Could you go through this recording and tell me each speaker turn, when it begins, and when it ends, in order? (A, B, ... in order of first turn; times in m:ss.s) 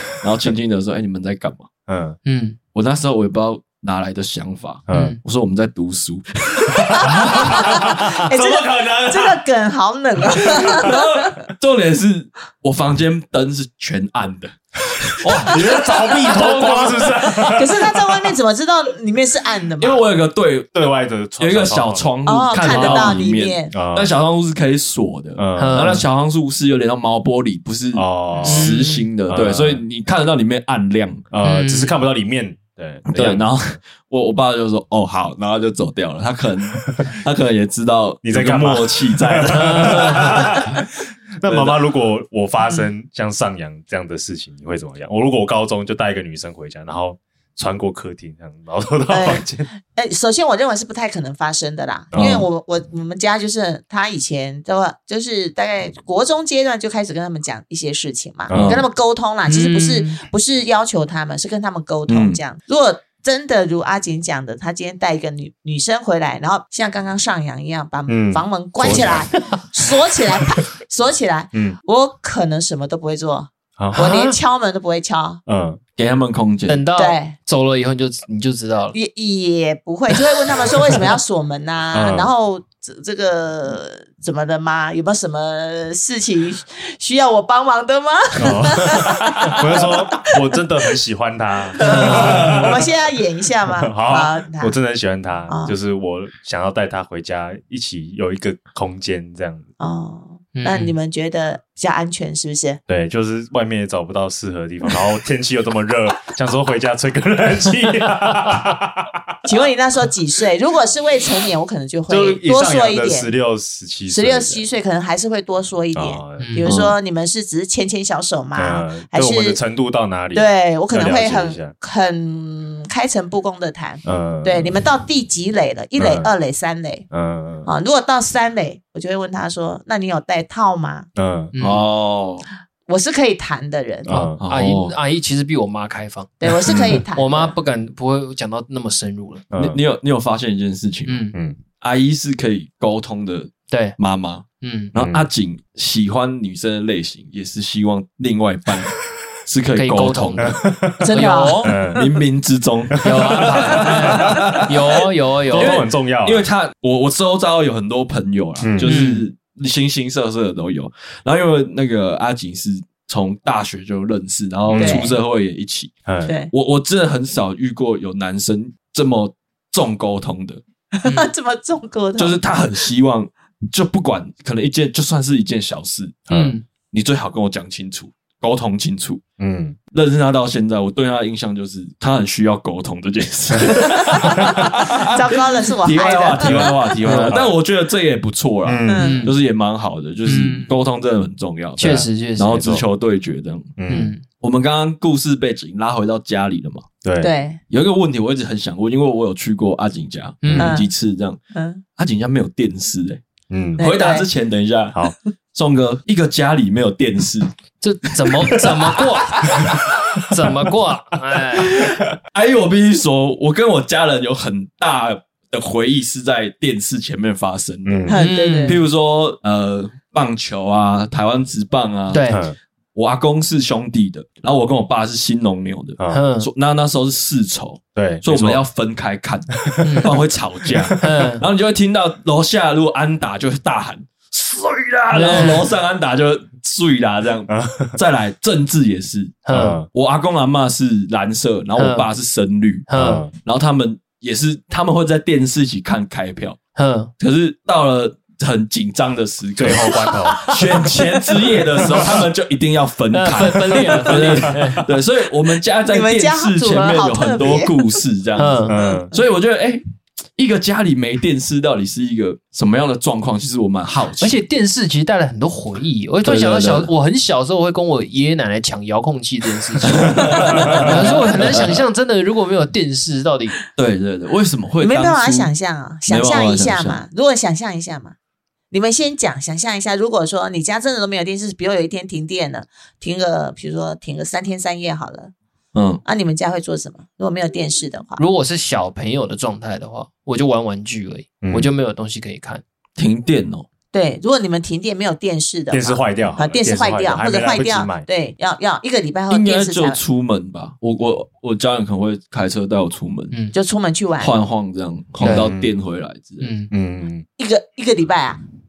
0:00.2-0:01.7 A
0:01.9-0:02.2 B
0:02.2-0:02.6 C
0:02.7-0:08.0 A
0:04.9-0:05.2 B
0:04.9-0:05.2 C
0:06.9-0:09.4 B
0:07.1-0:11.3 D
0:10.4-0:17.5 A
0:15.3-0:17.9 B
0:17.5-0:20.0 D
0:19.8-0:20.7 A
0:20.7-0:24.1 B
0:21.4-0:31.2 A
0:22.2-0:23.7 D
0:25.4-0:26.0 B
0:25.6-0:26.0 C
0:27.9-0:29.8 B
0:28.4-0:29.1 C
0:31.3-0:33.5 B
0:31.4-0:31.9 C
0:33.1-0:40.8 A
0:36.8-0:37.1 B
0:38.2-0:49.7 B
0:39.5-0:40.4 C
0:41.4-0:41.8 A
0:49.1-1:15.4 D
0:52.1-0:52.4 B
0:52.1-0:52.4 A
0:58.5-0:58.8 B
0:58.5-0:58.8 A
0:59.5-1:00.2 C
1:02.1-1:02.4 A
1:08.1-1:09.3 B
1:11.5-1:11.8 B
1:13.8-1:14.1 B
1:13.9-1:14.3 C
1:15.5-1:15.8 B
1:16.0-1:16.8 A
1:16.7-1:19.0 C
1:16.9-1:17.3 D
1:18.9-1:30.3 D
1:21.9-1:22.3 B
1:28.4-1:32.8 B
1:31.8-1:34.8 D
1:31.9-1:32.7 A
1:33.8-1:39.7 B
1:35.5-1:35.8 D
1:39.8-1:42.8 D
1:40.5-1:40.9 C
1:42.9-1:49.2 B
1:49.4-1:53.3 D
1:52.1-1:54.6 B
1:54.1-1:59.6 D
1:55.9-1:56.7 B
1:56.4-1:56.7 C
1:56.6-1:56.9 A
1:58.6-2:01.7 B
2:00.3-2:07.0 D
2:04.0-2:04.8 B
2:06.0-2:06.3 B
2:07.1-2:07.7 B
2:07.6-2:11.1 D
2:11.2-2:11.5 B
2:11.5-2:11.8 C
2:11.6-2:12.4 A
2:12.8-2:14.1 D
2:14.1-2:14.4 B
2:14.1-2:19.4 C
2:14.4-2:14.9 A
2:16.4-2:17.6 D
2:19.5-2:19.8 B
2:19.6-2:21.3 A
2:21.1-2:21.3 C
2:21.8-2:30.6 A
2:23.7-2:24.0 C
2:24.6-2:24.9 C
2:25.0-2:25.3 B
2:29.7-2:31.8 C
2:30.4-2:31.1 B
2:31.0-2:31.8 D
2:31.6-2:32.1 B
2:31.9-2:45.9 A
2:32.9-2:34.6 B
2:33.0-2:35.8 C
2:35.4-2:36.4 B
2:38.6-2:39.0 B
2:38.8-2:39.2 C
2:44.7-2:45.1 B
2:44.8-2:45.1 D
2:46.0-2:46.3 B
2:46.2-2:46.5 D
2:46.5-2:50.6 A
2:51.0-2:52.5 D
2:52.2-2:56.2 A
2:56.3-2:56.6 B
2:56.3-2:56.6 C
2:56.9-2:59.2 A
2:59.4-2:59.8 B
2:59.9-3:13.7 A
3:05.0-3:06.9 D
3:06.4-3:07.5 B
3:07.0-3:07.4 C
3:08.6-3:09.2 B
3:08.9-3:09.3 D
3:09.0-3:09.4 C
3:10.2-3:10.7 C
3:11.8-3:12.6 C
3:12.5-3:12.8 B
3:13.8-3:14.2 B
3:13.9-3:14.2 C
3:14.4-3:16.9 A
3:17.0-3:17.3 B
3:17.2-3:17.6 D
3:17.7-3:21.4 A
3:20.4-3:20.8 C
3:20.6-3:20.9 D
3:21.5-3:21.8 D
3:22.0-3:23.2 A
3:23.5-3:23.8 B
3:23.8-3:27.5 A
3:23.8-3:24.3 D
3:27.8-3:31.8 C
3:28.3-3:29.0 A
3:29.5-3:29.8 A
3:31.6-3:42.4 A
3:37.8-3:38.2 B
3:38.1-3:38.8 D
3:38.1-3:38.8 C
3:42.1-3:42.4 C
3:42.3-3:42.6 B
3:42.9-4:06.6 A
3:46.0-3:46.2 B
3:46.1-3:46.5 C
3:48.0-3:48.6 B
3:49.6-3:50.1 B
3:49.8-3:50.1 C
3:50.7-3:51.1 B
3:51.0-3:51.4 C
3:55.1-3:55.7 C
3:57.5-3:57.9 B
3:59.4-3:59.8 C
3:59.5-3:59.9 B
4:01.8-4:02.1 C
4:02.9-4:03.2 C
4:02.9-4:03.3 B
4:06.7-4:07.1 C
4:07.2-4:19.8 A
4:09.6-4:10.6 B
4:13.1-4:14.8 C
4:13.7-4:14.8 B
4:15.8-4:18.0 D
4:18.4-4:18.7 C
4:18.7-4:19.1 B
4:18.7-4:19.2 D
4:20.4-4:24.4 A
4:24.2-4:33.6 C
4:26.2-4:26.9 A
4:29.8-4:31.8 A
4:33.8-4:35.5 A
4:34.8-4:38.1 D
4:36.1-4:37.0 A
4:38.7-4:45.3 D
4:45.7-4:46.0 A
4:46.0-4:48.2 D
4:48.2-4:52.6 C
4:51.4-4:51.7 B
4:53.0-4:53.7 A
4:53.9-5:00.0 D
4:55.7-4:58.1 B
4:59.3-5:03.3 A
5:03.5-5:04.3 D
5:04.2-5:06.5 A
5:05.2-5:05.5 C
5:05.2-5:05.7 B
5:06.4-5:06.7 C
5:06.7-5:07.2 B
5:07.4-5:08.4 D